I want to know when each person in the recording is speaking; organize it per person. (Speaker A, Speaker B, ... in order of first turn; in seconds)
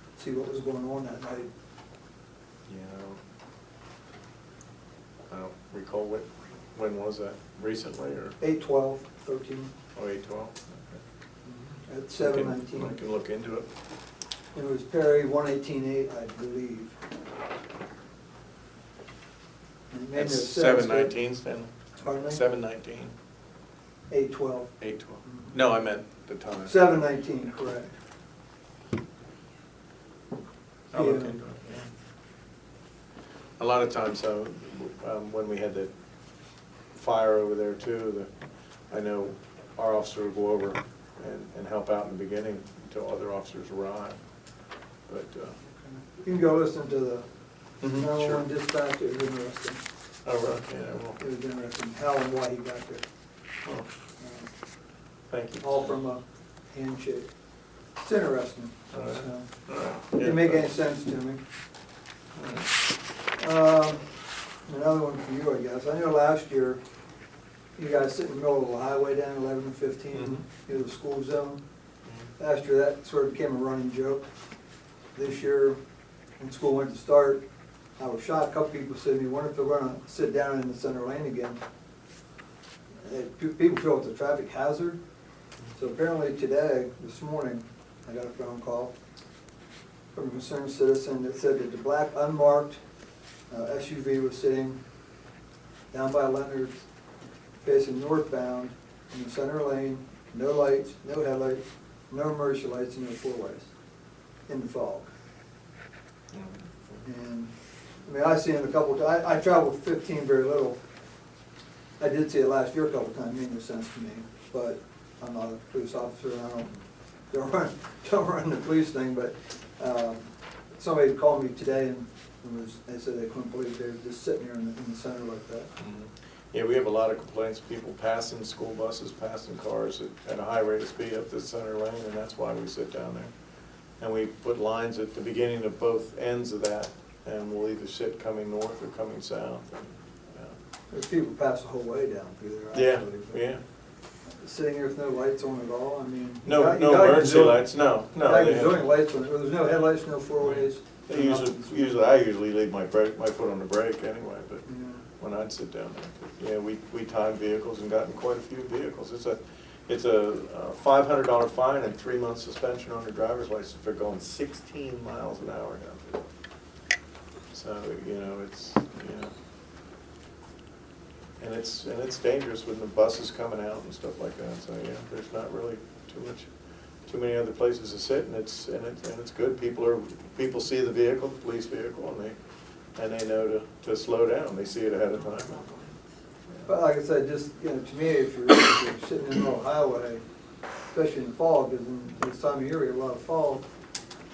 Speaker A: 0.2-1.5, 8.4-9.7, 11.5-13.0, 14.5-16.9, 19.9-21.1, 22.0-22.4, 24.1-24.7, 25.2-25.5, 26.6-27.9, 30.9-31.4, 46.1-47.2, 47.9-49.8, 51.2-53.0, 54.2-54.5, 55.6-57.3, 58.0-59.5, 60.2-61.4, 63.4-64.1, 64.7-66.8, 67.8-71.6, 72.4-74.3, 75.1-75.8, 76.4-77.4, 78.0-81.6, 83.0-85.0, 85.7-88.9, 90.1-92.8, 93.5-94.8, 95.9-96.8, 97.6-103.7, 104.5-105.1, 107.0-107.5, 108.0-110.8, 112.0-116.7, 117.3-125.7, 140.9-143.4, 144.4-147.7, 148.2-151.8, 154.7-155.0, 186.6-190.2, 190.9-193.7
Speaker B: 2.7-3.2, 5.3-8.3, 9.9-11.0, 12.2-13.7, 20.1-23.1, 24.8-26.9, 30.9-31.9, 33.6-35.9, 36.9-38.3, 38.9-44.2, 45.1-45.5, 47.8-48.4, 50.2-51.2, 55.3-55.9, 58.9-60.7, 62.4-62.7, 70.1-70.4, 106.3-107.0, 125.8-133.3, 134.0-140.5, 142.7-143.6, 146.4-148.8, 150.4-154.6, 155.2-166.2, 167.5-169.3, 171.4-176.5, 177.1-182.3, 182.9-185.7